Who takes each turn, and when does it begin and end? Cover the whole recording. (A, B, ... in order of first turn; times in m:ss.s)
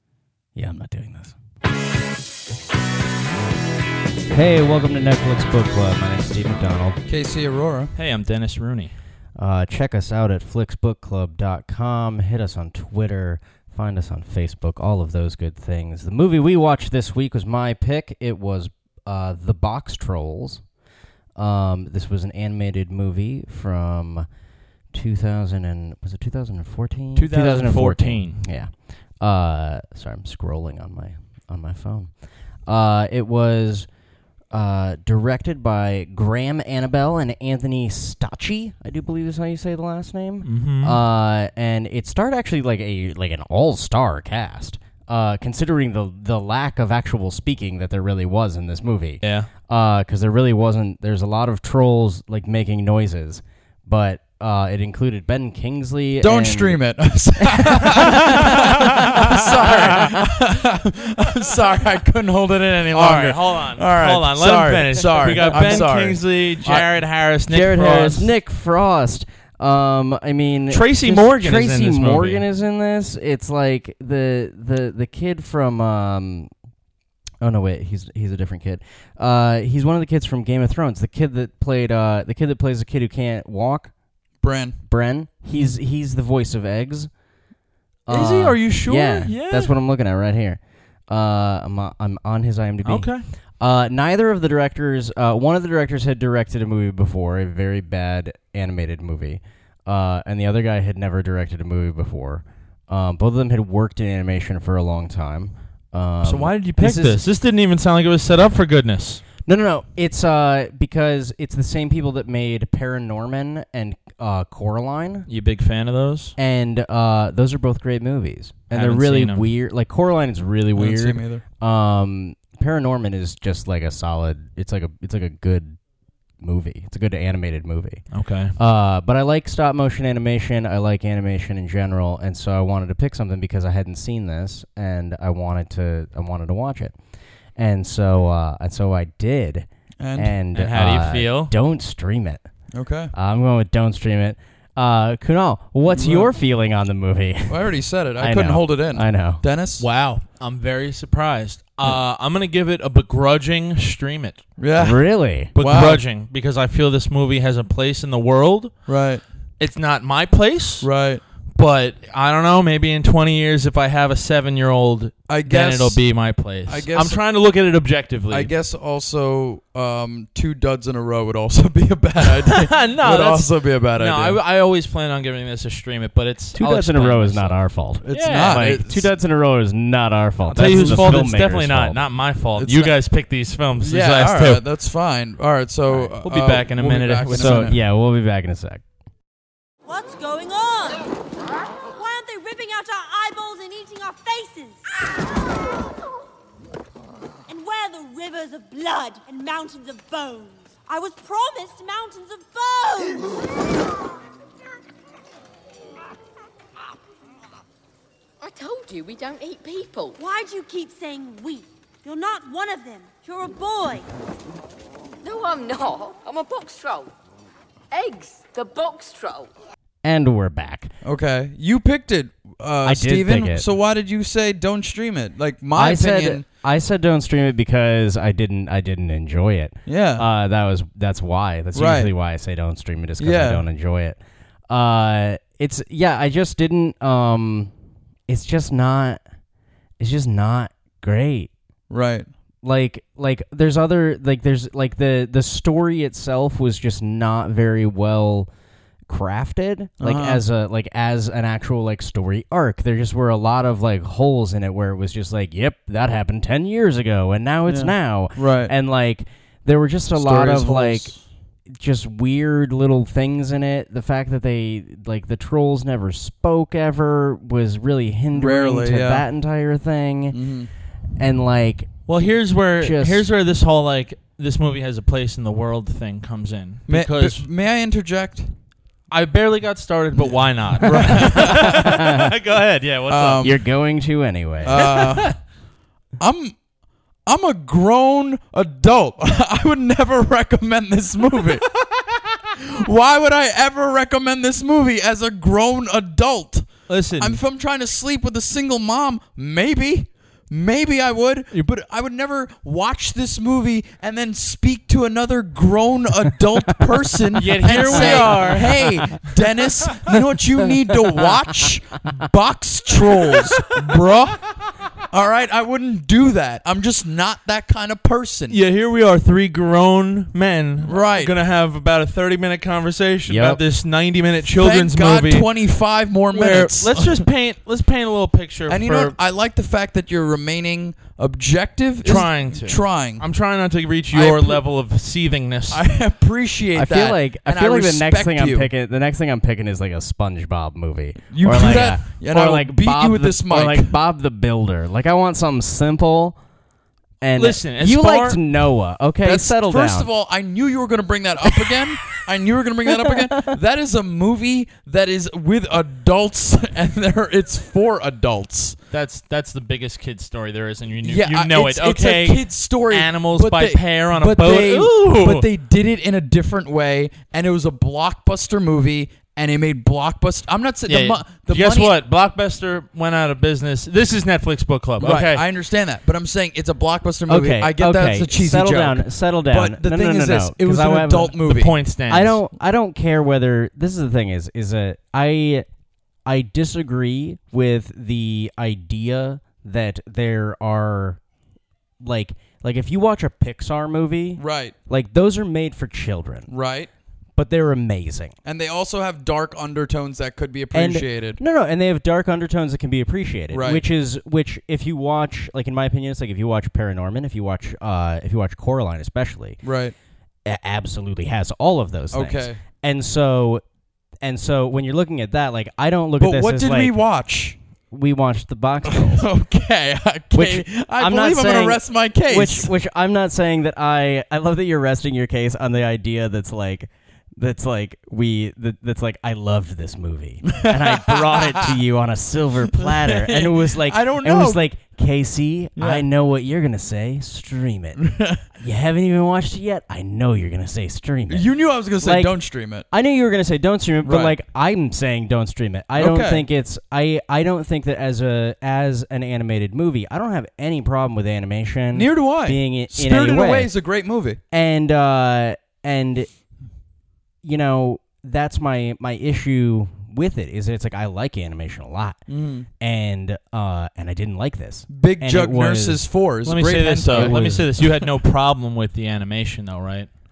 0:00.6-0:01.4 A
0:04.3-0:07.0 A
0:07.1-0:07.9 B
0:08.0-0:08.9 C
0:09.4-0:20.6 A
0:21.4-0:24.3 A
0:24.9-0:32.1 A
0:27.2-0:28.4 C
0:32.7-0:33.9 A
0:34.5-0:56.8 A
0:40.4-0:41.0 C
0:49.2-0:49.5 C
0:56.2-1:06.8 B
0:57.4-1:00.2 A
0:58.4-1:00.0 C
1:02.9-1:08.3 C
1:05.2-1:05.9 A
1:07.5-1:16.5 A
1:10.7-1:12.4 C
1:17.4-1:23.9 A
1:24.4-1:24.8 B
1:24.9-1:27.1 A
1:28.1-1:33.1 A
1:28.1-1:29.7 C
1:32.8-1:33.2 C
1:33.6-1:47.2 A
1:46.2-1:49.2 C
1:49.5-1:55.3 A
1:55.3-1:56.4 C
1:56.4-2:05.8 A
1:58.7-1:59.5 C
2:00.8-2:01.4 B
2:06.4-2:08.0 A
2:08.1-2:08.5 C
2:08.6-2:17.0 A
2:17.6-2:22.4 A
2:20.0-2:20.3 B
2:20.5-2:21.5 C
2:22.7-2:23.1 B
2:23.1-2:27.6 A
2:25.9-2:26.3 B
2:27.5-2:29.8 B
2:28.2-2:29.4 A
2:29.8-2:34.4 C
2:34.6-2:35.0 B
2:34.8-2:35.5 A
2:35.6-2:38.9 C
2:35.6-2:36.0 B
2:38.9-2:39.2 B
2:39.6-2:40.9 C
2:40.8-2:41.2 B
2:41.5-2:48.5 C
2:45.3-2:46.0 B
2:46.7-2:47.2 B
2:48.3-2:54.4 B
2:52.5-2:57.6 C
2:56.6-3:02.0 A
2:58.0-2:59.1 B
2:58.1-2:58.8 C
3:00.5-3:04.6 C
3:00.6-3:01.2 B
3:02.6-3:03.0 B
3:03.8-3:07.8 B
3:06.2-3:07.8 C
3:07.3-3:08.8 A
3:09.8-3:11.0 D
3:11.9-3:14.8 D
3:17.5-3:23.4 D
3:28.4-3:30.2 E
3:30.2-3:34.1 D
3:35.2-3:37.1 E
3:37.9-3:39.5 E
3:40.0-3:40.9 A
3:41.0-3:46.4 B
3:42.8-3:43.7 A
3:45.8-3:57.7 A
3:49.9-3:50.3 B
3:51.7-3:52.1 B
3:53.2-3:53.6 B
3:58.3-3:59.2 A
4:00.0-4:01.5 A
4:01.9-4:02.3 B
4:02.6-4:08.5 A
4:09.1-4:21.1 A
4:10.0-4:10.4 B
4:17.7-4:18.7 B
4:20.2-4:21.2 B
4:21.7-4:30.4 A
4:28.3-4:29.2 B
4:30.3-4:30.7 B
4:31.2-4:31.9 A
4:32.1-4:37.4 C
4:32.8-4:33.3 A
4:36.9-4:38.5 B
4:39.1-4:43.6 C
4:40.2-4:41.9 B
4:41.7-4:42.3 A
4:43.1-4:43.6 B
4:43.4-4:45.1 A
4:44.6-4:45.4 B
4:44.8-4:45.3 C
4:46.2-4:46.6 B
4:47.3-4:51.7 B
4:52.5-5:14.5 B
4:56.9-4:57.4 C
5:07.4-5:09.3 C
5:08.0-5:08.4 A
5:15.1-5:18.6 B
5:18.5-5:25.5 C
5:20.8-5:21.3 B
5:23.3-5:23.6 A
5:24.5-5:27.3 B
5:26.3-5:29.2 C
5:28.7-5:33.2 B
5:32.0-5:35.8 C
5:34.1-5:34.6 B
5:35.7-5:38.7 B
5:36.8-5:46.4 A
5:41.3-5:44.0 B
5:47.2-5:50.1 A
5:47.4-5:48.4 C
5:49.2-5:58.8 B
5:58.9-6:05.5 C
6:01.0-6:12.0 B
6:10.9-6:15.4 C
6:15.0-6:21.7 B
6:17.3-6:21.4 A
6:21.4-6:22.4 C
6:22.1-6:25.7 A
6:26.3-6:31.2 A
6:32.0-6:36.5 A
6:34.4-6:34.7 B
6:36.5-6:36.9 B
6:37.4-6:38.3 A
6:38.4-6:41.4 B
6:40.7-6:49.6 A
6:43.5-6:43.8 B
6:49.6-6:50.0 B
6:50.4-6:53.6 A
6:52.1-6:52.6 B
6:54.2-6:57.0 A
6:56.2-6:57.6 B
6:57.9-6:59.3 A
6:58.9-7:02.7 B
7:00.3-7:18.0 A
7:10.5-7:11.8 B
7:12.8-7:14.6 B
7:15.8-7:16.0 B
7:18.0-7:18.4 B
7:18.5-7:22.4 A
7:21.3-7:22.8 B
7:22.9-7:33.7 A
7:24.0-7:24.4 B
7:26.0-7:26.5 B
7:31.9-7:34.4 B
7:34.5-7:36.3 A
7:37.4-7:42.2 A
7:42.3-7:42.7 B
7:42.8-7:46.0 A
7:44.9-7:47.9 B
7:46.4-7:50.1 C
7:47.1-7:47.7 A